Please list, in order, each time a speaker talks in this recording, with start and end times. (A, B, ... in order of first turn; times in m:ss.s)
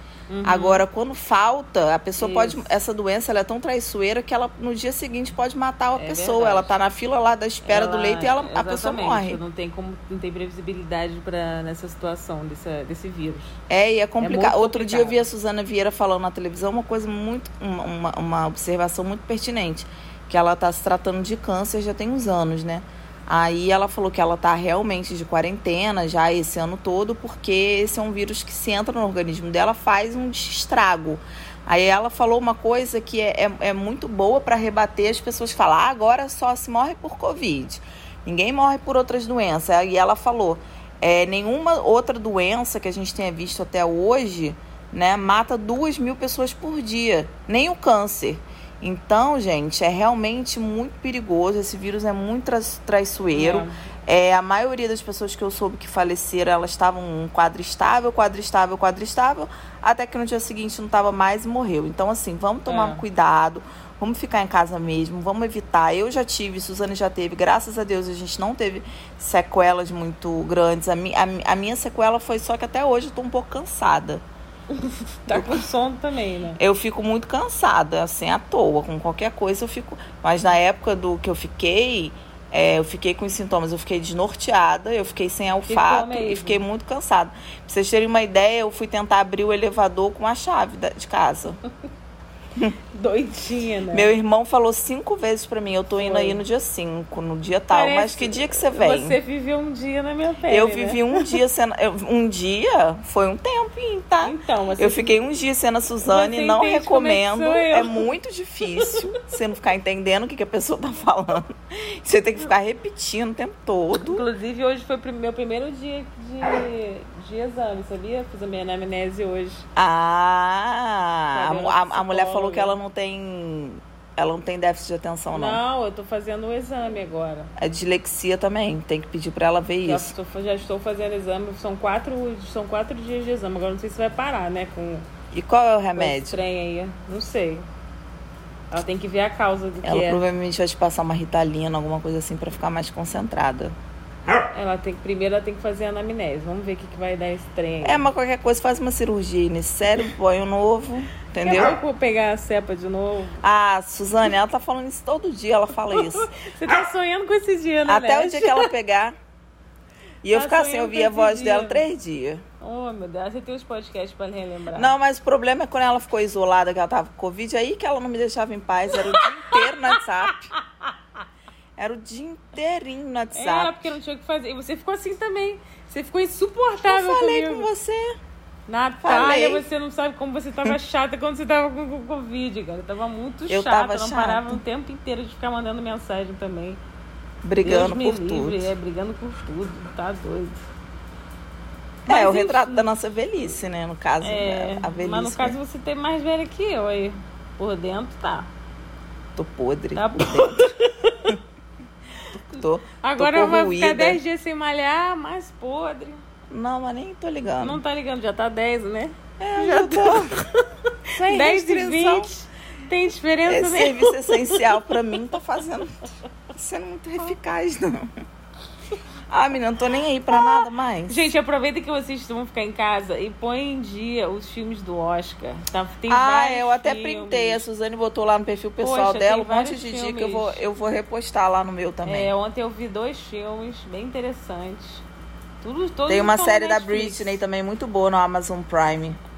0:00.3-0:00.8 A
0:00.4-0:09.4 B
0:02.2-0:02.7 A
0:06.0-0:06.7 A
0:07.6-0:13.5 A
0:13.7-1:14.2 B
0:14.2-0:15.2 A
0:53.3-0:53.8 A
1:02.7-1:03.0 A
1:14.8-1:16.6 A
1:15.3-1:15.7 B
1:16.6-1:31.6 B
1:25.7-1:26.6 A
1:32.9-1:34.1 A
1:33.9-1:39.2 B
1:36.0-1:36.4 A
1:37.7-1:41.4 A
1:40.5-1:54.3 B
1:44.2-1:45.2 A
1:46.0-1:48.0 A
1:53.9-1:59.7 A
1:59.8-2:05.6 B
2:01.3-2:02.8 A
2:05.3-2:07.5 A
2:07.6-2:10.2 B
2:09.8-2:15.1 A
2:15.3-2:16.4 B
2:16.0-2:17.6 A
2:18.7-2:20.3 A
2:19.8-2:23.8 B
2:24.5-2:28.0 A
2:27.8-2:31.8 B
2:31.4-2:33.4 A
2:33.4-2:36.3 B
2:35.9-2:38.7 A
2:37.9-2:39.2 B
2:40.2-2:42.4 B
2:40.3-2:41.8 A
2:42.6-2:44.9 A
2:44.7-2:50.5 B
2:49.2-2:50.3 A
2:51.8-2:53.9 B
2:53.3-2:57.7 A
2:56.9-2:58.2 B
2:58.7-3:06.8 A
2:59.0-2:59.7 B
3:03.5-3:04.6 B
3:07.4-3:08.7 B
3:07.6-3:10.6 A
3:12.1-3:15.6 B
3:12.1-3:12.9 A
3:14.2-3:18.5 A
3:19.4-3:20.7 B
3:20.0-3:21.4 A
3:22.5-3:26.2 A
3:22.6-3:24.2 B
3:26.5-3:27.8 B
3:27.6-3:30.5 A
3:29.4-3:30.3 B
3:31.2-3:35.1 A
3:31.2-3:32.3 B
3:33.5-3:36.0 B
3:36.6-3:38.1 B
3:39.3-3:41.3 B
3:40.3-3:47.6 A
3:46.1-3:52.3 B
3:48.8-3:50.6 A
3:52.0-3:55.0 A
3:55.6-3:57.4 A
3:56.1-3:59.2 B